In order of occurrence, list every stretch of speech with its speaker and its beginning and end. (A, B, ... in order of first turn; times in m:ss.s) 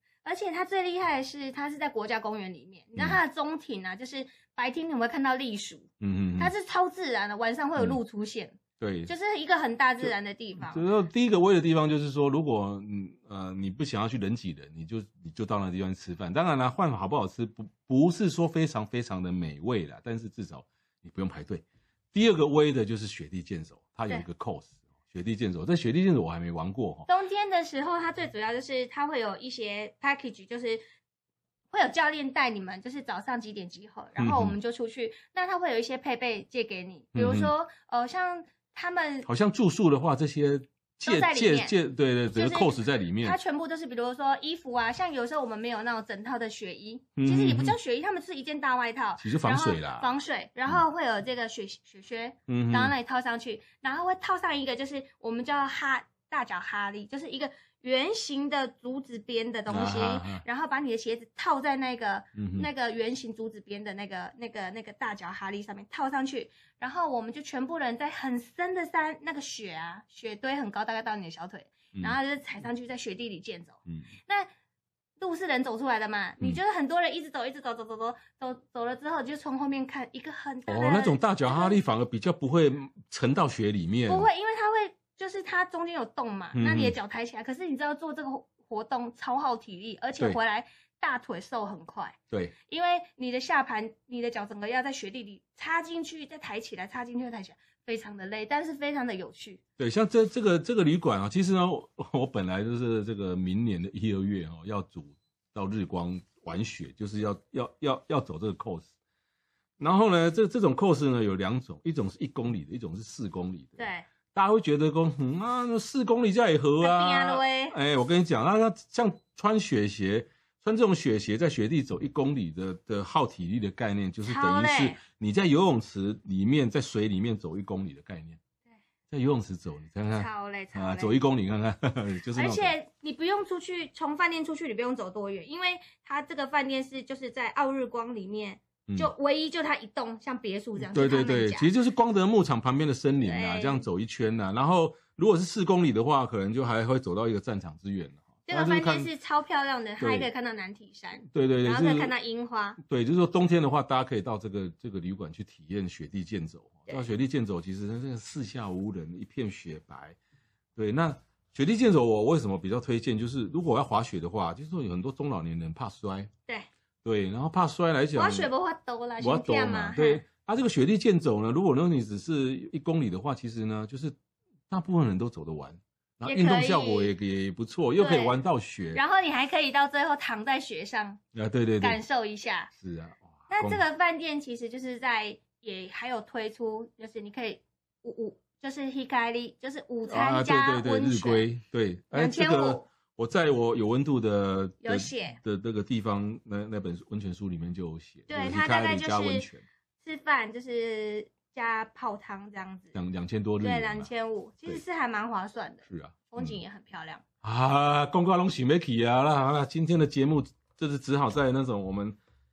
0:00.2-0:08.6 A
0:06.0-0:06.5 B
0:08.8-0:09.1 B
0:09.1-0:10.8 A
0:10.0-0:27.1 B
0:27.1-0:30.8 A
0:31.7-0:39.3 A
0:34.2-0:34.6 B
0:37.1-0:37.5 B
0:39.2-0:43.4 B
0:41.1-0:41.8 A
0:42.3-1:14.5 A
0:47.2-0:47.8 B
0:49.2-0:50.1 B
0:52.5-0:53.0 B
0:59.7-1:00.4 B
1:02.4-1:02.7 B
1:15.2-1:21.8 A
1:20.7-1:24.3 B
1:24.1-1:32.2 A
1:26.5-1:27.0 B
1:32.7-1:39.6 A
1:39.8-1:48.9 B
1:49.8-2:08.4 B
1:53.8-1:54.1 A
1:56.8-1:57.8 A
2:04.2-2:05.0 A
2:09.1-2:12.8 B
2:10.1-2:11.2 A
2:12.3-2:21.7 A
2:20.8-2:29.1 B
2:23.2-2:23.9 A
2:28.5-2:32.8 A
2:30.0-2:30.3 B
2:31.3-2:32.1 B
2:32.8-2:40.2 B
2:40.8-2:46.3 B
2:47.0-2:48.5 B
2:48.1-2:50.2 A
2:49.2-2:54.2 B
2:54.7-2:59.0 B
2:56.2-2:57.1 A
2:58.0-2:58.3 A
2:58.9-3:01.2 A
3:01.3-3:02.0 B
3:01.8-3:02.7 A
3:02.8-3:03.8 B
3:03.5-3:11.5 A
3:10.0-3:19.6 B
3:12.1-3:12.8 A
3:14.8-3:15.4 A
3:18.3-3:19.5 A
3:20.0-3:22.9 A
3:22.9-3:24.1 B
3:23.6-3:27.2 A
3:25.9-3:26.6 B
3:27.4-3:32.2 B